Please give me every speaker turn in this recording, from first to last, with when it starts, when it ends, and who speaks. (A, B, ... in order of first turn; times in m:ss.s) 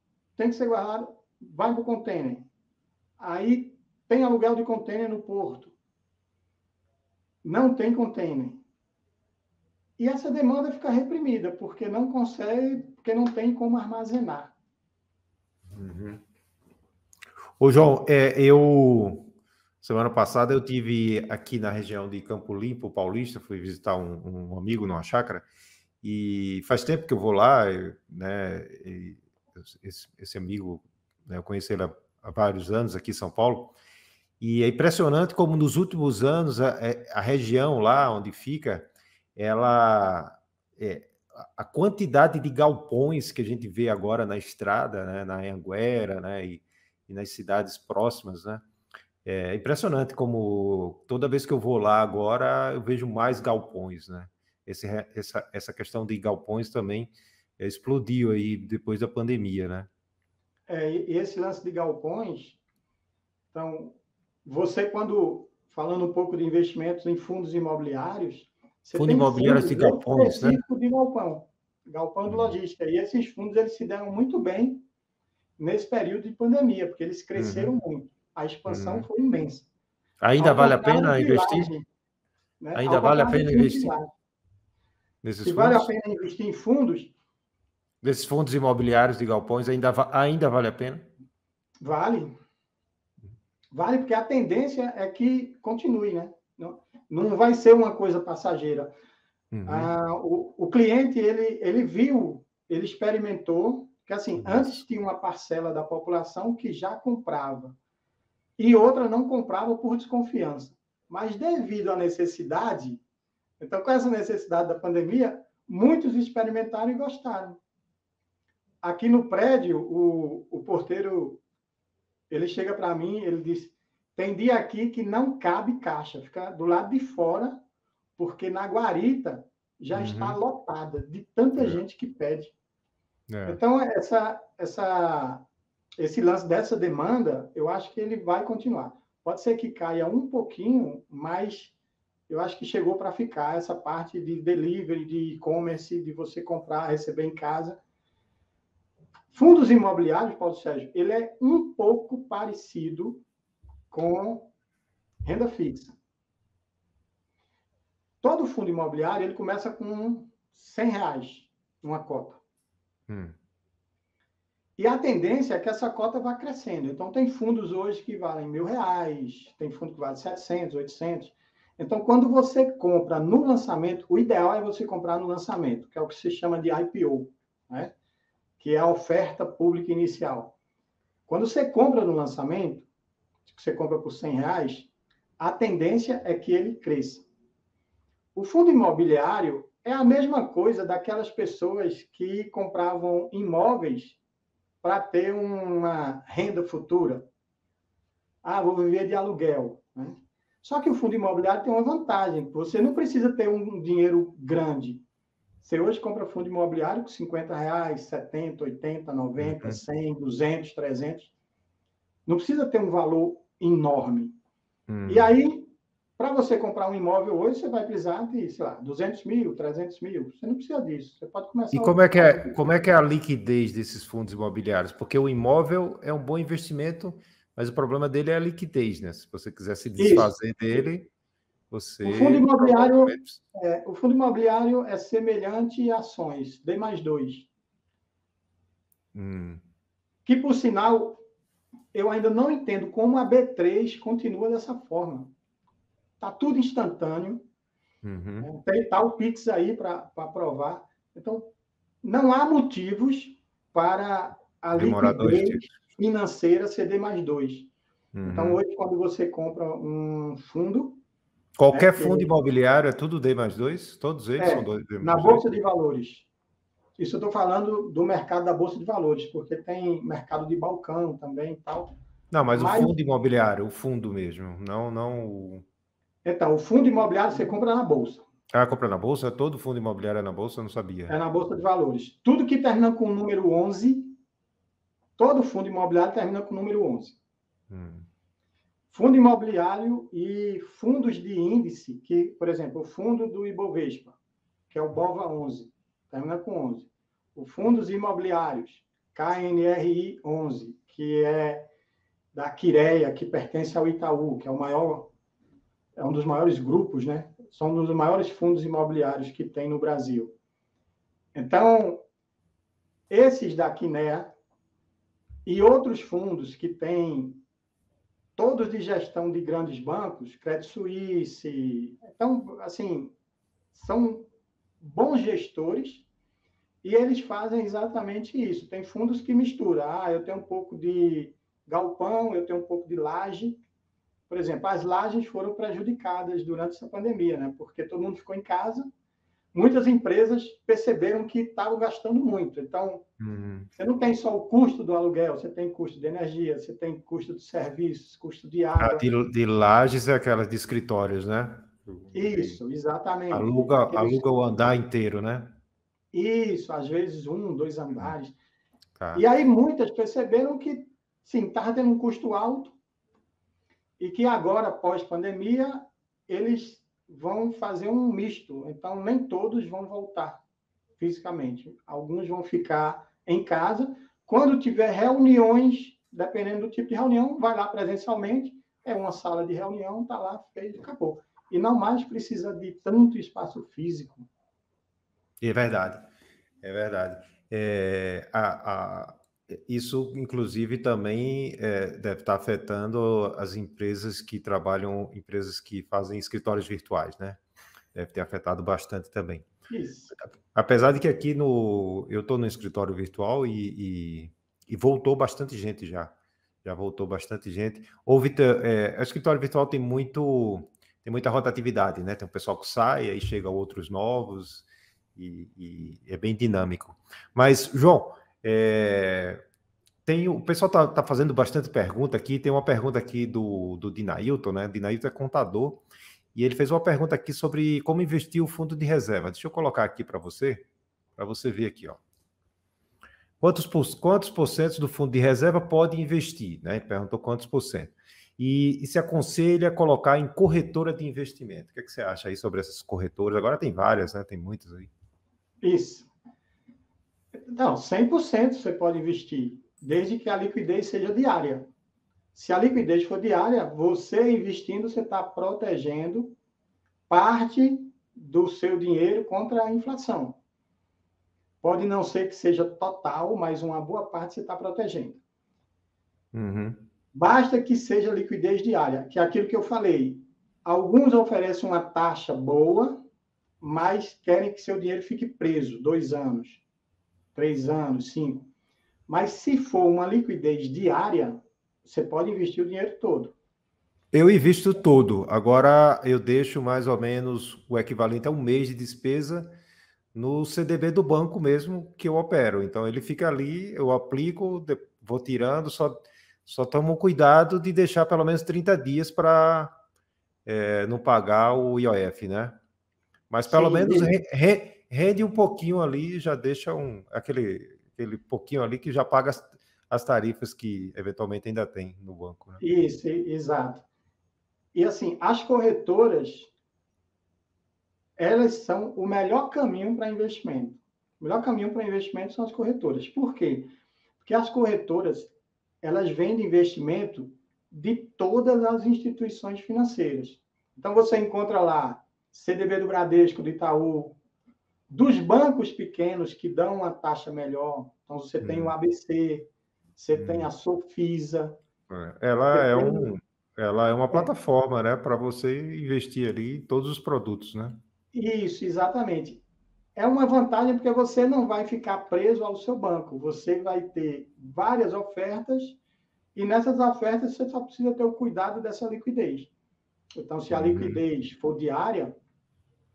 0:00.4-0:02.5 A
0:03.2-0:05.7 A
0:07.4-0:08.6 A
0:10.0-0:14.5 A
0:15.7-0:16.2 B
0:17.6-0:19.3 B
0:19.8-0:25.4 B
0:26.0-0:33.7 B
0:34.4-0:48.6 B
0:49.2-0:59.9 B
1:00.7-1:02.6 A
1:03.5-1:14.8 A
1:08.9-1:10.6 B
1:15.6-1:19.7 A
1:17.4-1:17.7 B
1:18.7-1:19.0 B
1:20.2-1:21.7 B
1:20.4-1:21.9 A
1:22.6-1:24.1 A
1:22.7-1:23.9 B
1:25.2-1:25.9 B
1:25.4-1:27.1 A
1:28.0-1:31.0 B
1:31.8-1:32.3 A
1:33.7-1:38.9 A
1:39.5-1:39.9 B
1:39.6-1:47.8 A
1:44.4-1:44.8 B
1:48.6-1:53.0 A
1:53.6-1:57.6 A
1:58.8-2:01.4 A
2:02.3-2:07.6 A
2:08.2-2:12.5 A
2:09.9-2:10.4 B
2:13.3-2:13.6 B
2:13.4-2:15.4 A
2:16.0-2:21.7 A
2:22.3-2:27.8 A
2:29.3-2:33.2 A
2:33.9-2:34.5 A
2:35.2-2:36.0 A
2:38.2-2:42.4 A
2:43.1-2:43.3 B
2:44.8-2:57.9 A
2:58.6-3:00.5 A
3:01.3-3:02.9 A
3:03.5-3:07.2 A
3:08.3-3:14.2 A
3:14.8-3:17.3 A
3:18.4-3:25.0 A
3:25.6-3:31.3 A
3:29.4-3:29.8 B
3:32.2-3:34.3 A
3:34.9-3:35.3 B
3:35.1-3:42.7 A
3:41.7-3:51.1 B
3:50.0-3:50.3 A
3:51.7-3:53.4 B
3:52.0-3:57.5 A
3:59.1-3:59.6 B
4:00.2-4:01.2 A
4:01.9-4:05.3 A
4:06.2-4:07.4 A
4:08.0-4:08.4 B
4:08.4-4:11.5 A
4:12.0-4:17.7 A
4:14.8-4:15.7 B
4:18.1-4:18.6 B
4:18.2-4:21.0 A
4:21.6-4:25.4 B
4:21.7-4:22.3 A
4:24.4-4:26.3 A
4:27.0-4:31.9 A
4:32.3-4:35.6 B
4:32.5-4:32.9 A
4:36.2-4:38.2 A
4:38.5-4:41.1 B
4:41.1-4:44.2 A
4:45.2-4:47.2 A
4:47.7-4:48.1 B
4:48.9-4:54.2 A
4:54.7-5:01.7 A
5:02.3-5:05.1 A
5:06.0-5:10.3 A
5:11.3-5:12.0 A
5:13.1-5:14.3 A
5:15.4-5:17.4 A
5:18.4-5:23.1 A
5:23.7-5:24.3 A
5:24.8-5:26.0 A
5:26.8-5:33.6 A
5:34.3-5:38.9 A
5:39.5-5:43.0 A
5:43.2-5:43.7 B
5:43.8-5:49.0 A
5:48.8-5:52.6 B
5:52.1-5:54.3 A
5:53.3-5:55.6 B
5:56.1-5:58.4 A
5:59.0-5:59.2 B
5:59.1-6:02.7 A
6:04.0-6:10.4 A
6:11.0-6:24.3 A
6:25.4-6:26.0 B
6:26.6-6:37.4 B
6:37.9-6:39.5 B
6:39.7-6:40.1 A
6:40.4-6:46.1 B
6:46.6-6:59.4 B
7:00.0-7:05.8 B
7:06.3-7:10.6 B
7:11.2-7:12.0 B
7:13.4-7:24.9 B
7:25.6-7:26.1 A
7:27.5-7:31.7 A
7:32.3-7:36.3 A
7:37.1-7:40.4 A
7:41.6-7:45.2 A
7:46.3-7:46.8 B
7:47.1-7:53.0 A
7:53.6-7:56.6 A
7:57.3-7:58.5 A
7:59.1-8:03.3 A
8:04.1-8:09.5 B
8:10.1-8:19.7 B
8:20.4-8:22.6 B
8:23.3-8:32.6 B
8:23.5-8:24.1 A
8:32.6-8:33.8 A
8:34.7-8:36.5 A
8:38.2-8:43.7 A
8:44.2-8:54.2 A
8:54.9-9:01.6 A
8:58.4-8:58.7 B
9:00.1-9:00.5 B
9:01.9-9:07.8 B
9:02.5-9:03.1 A
9:08.1-9:09.4 A
9:10.0-9:15.8 A
9:16.3-9:19.5 A
9:20.2-9:22.2 A
9:20.5-9:21.0 B